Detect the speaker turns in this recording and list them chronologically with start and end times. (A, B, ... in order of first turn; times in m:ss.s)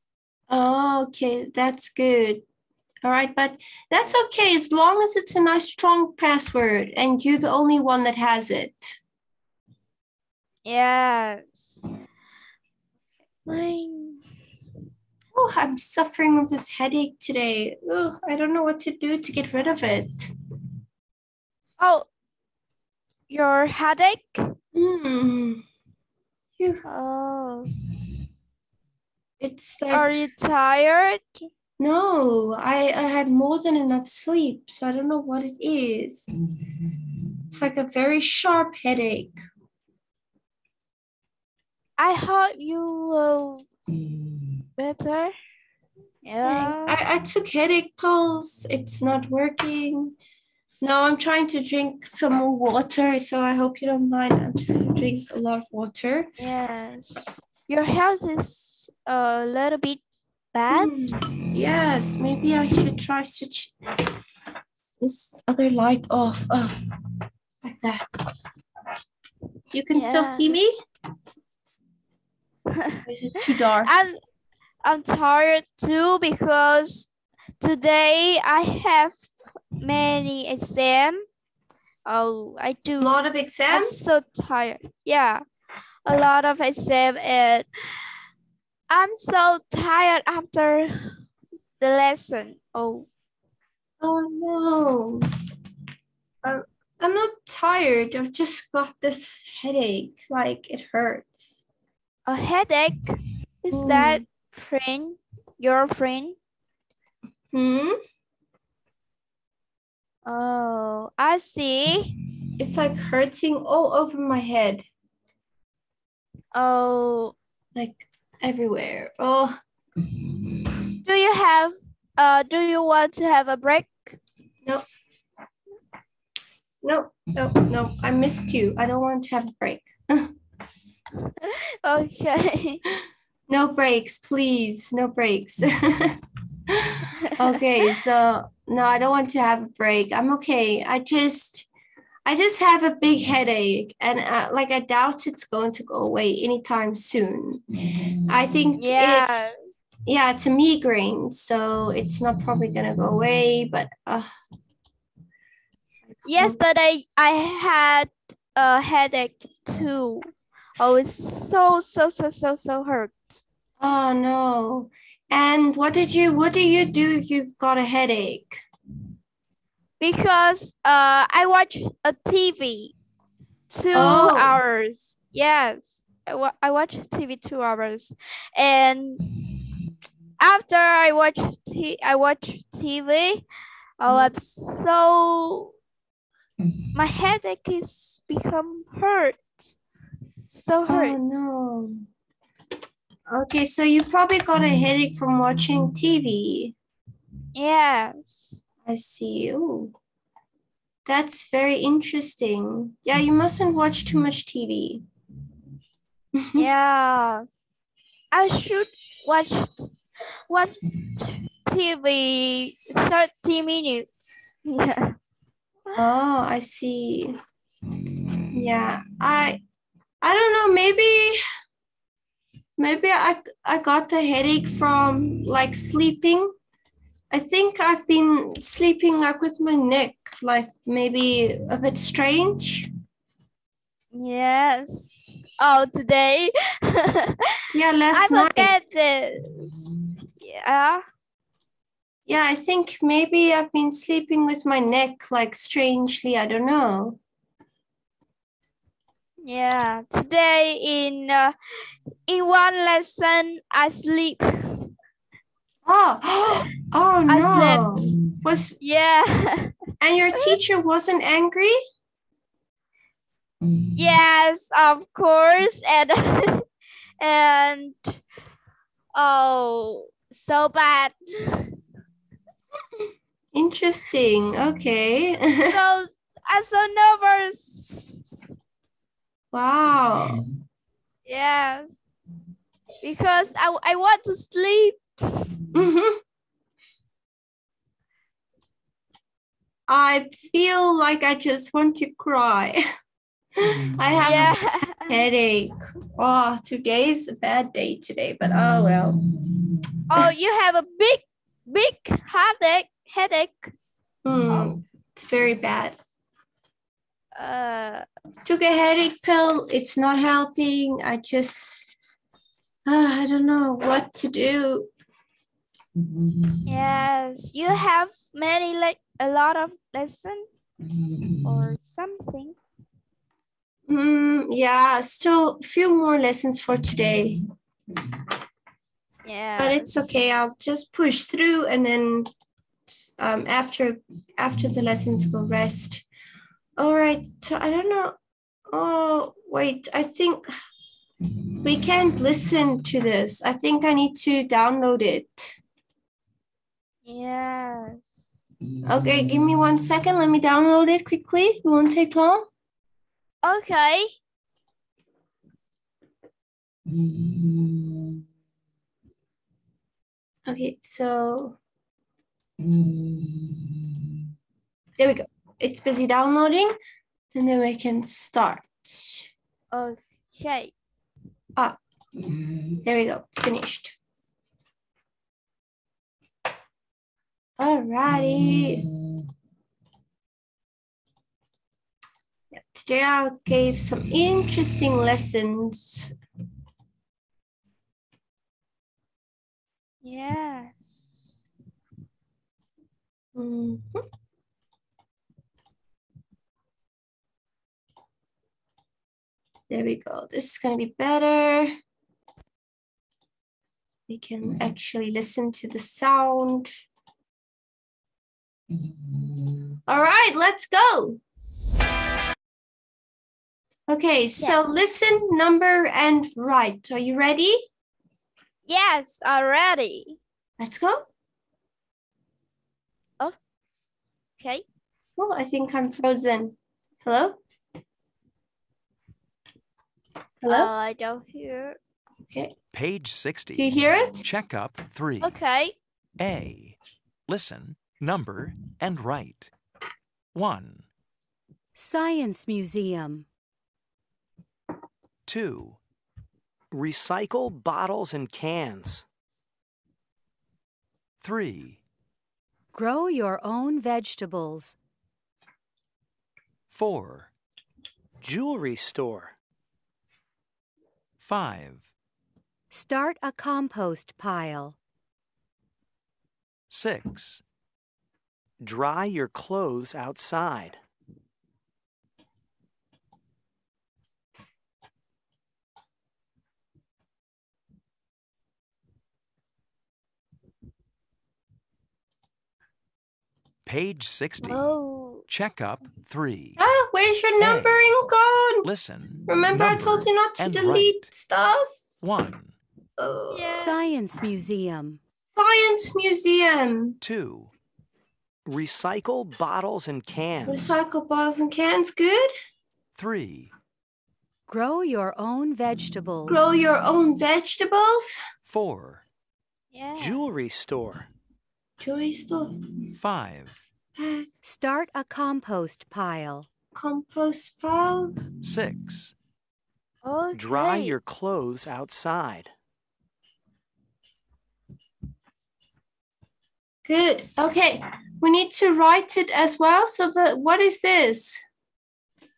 0:00.5-0:02.4 A
0:03.0-0:09.0 A
0:10.6-0:11.8 B
0:13.4-0:14.2 B
0:15.3-0:20.3 A
0:21.8-0:22.1 B
0:23.3-0:24.5 B
0:24.7-0:25.6 A
0:26.6-0:26.8 A
0:26.8-0:27.7 B
0:29.4-0:30.1 A
0:29.9-0:31.4 B
0:31.8-0:36.3 A
0:37.5-0:39.4 A
0:42.0-0:43.7 B
0:44.8-0:45.3 B
0:46.2-0:47.0 B
0:46.4-0:50.2 A
0:50.8-0:56.3 A
0:56.4-1:00.0 B
1:00.5-1:00.9 B
1:00.7-1:03.8 A
1:05.0-1:06.8 A
1:07.6-1:08.3 A
1:09.7-1:10.7 A
1:09.9-1:10.6 B
1:13.0-1:13.9 A
1:13.8-1:14.2 B
1:14.8-1:17.1 B
1:17.6-1:21.2 B
1:22.1-1:25.4 B
1:23.0-1:24.2 A
1:26.1-1:27.7 B
1:28.9-1:31.2 B
1:31.8-1:33.1 B
1:34.0-1:35.3 A
1:36.4-1:41.6 A
1:42.3-1:46.4 B
1:43.7-1:44.2 A
1:47.5-1:48.0 A
1:50.3-1:52.1 B
1:52.6-1:54.9 A
1:56.5-1:57.4 B
1:57.8-1:59.6 A
2:01.0-2:04.2 B
2:06.8-2:10.3 A
2:11.4-2:12.8 B
2:13.5-2:21.7 A
2:22.3-2:27.6 A
2:28.3-2:29.6 A
2:28.8-2:29.6 B
2:30.1-2:34.3 A
2:36.1-2:36.6 A
2:36.2-2:43.4 B
2:43.8-2:48.6 A
2:50.0-2:52.9 B
2:53.7-2:59.2 B
2:53.9-2:54.6 A
3:00.4-3:03.4 B
3:04.0-3:05.7 B
3:04.1-3:04.3 A
3:06.9-3:09.6 B
3:10.5-3:11.4 B
3:10.9-3:12.1 A
3:13.3-3:16.7 A
3:17.6-3:18.6 B
3:18.8-3:19.9 A
3:21.1-3:25.0 A
3:26.4-3:26.7 A
3:26.6-3:27.4 B
3:28.3-3:29.9 B
3:30.5-3:34.1 B
3:34.6-3:35.2 B
3:36.0-3:37.4 A
3:38.5-3:39.6 A
3:40.2-3:41.4 A
3:42.8-3:46.5 A
3:47.3-3:52.9 A
3:54.1-3:57.6 B
3:57.7-3:58.8 A
3:58.1-3:59.7 B
4:00.4-4:01.0 B
4:02.3-4:07.2 A
4:09.4-4:11.6 B
4:12.3-4:14.9 B
4:15.8-4:18.8 A
4:17.3-4:18.1 B
4:18.8-4:19.8 B
4:20.0-4:21.8 A
4:24.0-4:26.6 B
4:27.2-4:28.2 B
4:29.2-4:31.7 B
4:33.5-4:35.8 A
4:35.7-4:38.5 B
4:39.5-4:40.4 A
4:41.3-4:42.0 B
4:43.0-4:45.5 B
4:45.7-4:46.2 A
4:49.9-4:52.8 A
4:53.6-4:54.6 A
4:54.2-4:55.2 B
4:55.1-4:59.5 A
5:00.1-5:03.7 B
5:04.2-5:06.0 A
5:07.4-5:08.1 B
5:08.4-5:11.9 A
5:12.9-5:14.9 A
5:16.7-5:20.5 B
5:21.4-5:22.6 B
5:23.9-5:27.5 A
5:29.2-5:30.1 B
5:29.6-5:32.3 A
5:32.9-5:36.1 A
5:36.8-5:38.2 A
5:38.7-5:40.5 A
5:41.6-5:45.6 A
5:47.0-5:48.2 B
5:48.8-5:52.5 A
5:53.4-5:54.1 B
6:00.5-6:01.6 A
6:05.0-6:06.8 A
6:07.3-6:09.3 A
6:09.7-6:10.7 B
6:12.8-6:14.0 A
6:17.6-6:18.9 A
6:22.5-6:26.1 A
6:30.0-6:31.4 B
6:33.4-6:34.0 A
6:39.7-6:41.7 A
6:44.1-6:46.8 A
6:49.8-6:51.2 A
6:53.9-6:57.7 A
6:58.7-7:00.2 B
7:00.6-7:01.1 A
7:04.4-7:04.6 B
7:05.2-7:07.4 A
7:10.4-7:10.7 A
7:10.5-7:11.8 B
7:12.7-7:13.7 C
7:13.6-7:14.2 A
7:14.2-7:15.4 C
7:15.2-7:15.8 B
7:16.2-7:16.8 C
7:17.3-7:19.5 C
7:20.3-7:20.9 C
7:21.8-7:23.3 D
7:25.3-7:25.8 C
7:26.7-7:29.0 E
7:31.2-7:31.8 C
7:32.7-7:34.8 D
7:36.7-7:37.3 C
7:38.2-7:39.3 E
7:41.2-7:41.9 C
7:42.7-7:44.8 D
7:46.7-7:47.4 C
7:48.6-7:50.8 E
8:03.6-8:04.7 C
8:04.4-8:05.3 B
8:05.3-8:06.6 C
8:06.6-8:08.6 A
8:07.4-8:07.8 C
8:08.6-8:11.0 C
8:09.3-8:11.7 A
8:12.0-8:12.6 C
8:13.0-8:13.8 A
8:13.3-8:13.8 B
8:13.5-8:15.0 D
8:15.3-8:17.0 A
8:17.0-8:17.5 C
8:18.4-8:20.7 E
8:20.4-8:22.3 A
8:23.0-8:23.5 C
8:24.5-8:26.4 D
8:26.3-8:28.1 A
8:28.4-8:29.0 C
8:29.7-8:30.3 B
8:30.0-8:31.1 E
8:31.8-8:32.9 A
8:33.0-8:33.6 C
8:34.0-8:34.3 A
8:34.4-8:36.5 D
8:36.7-8:38.2 A
8:38.4-8:39.1 C
8:40.0-8:41.0 B
8:40.3-8:42.5 E
8:46.8-8:51.4 A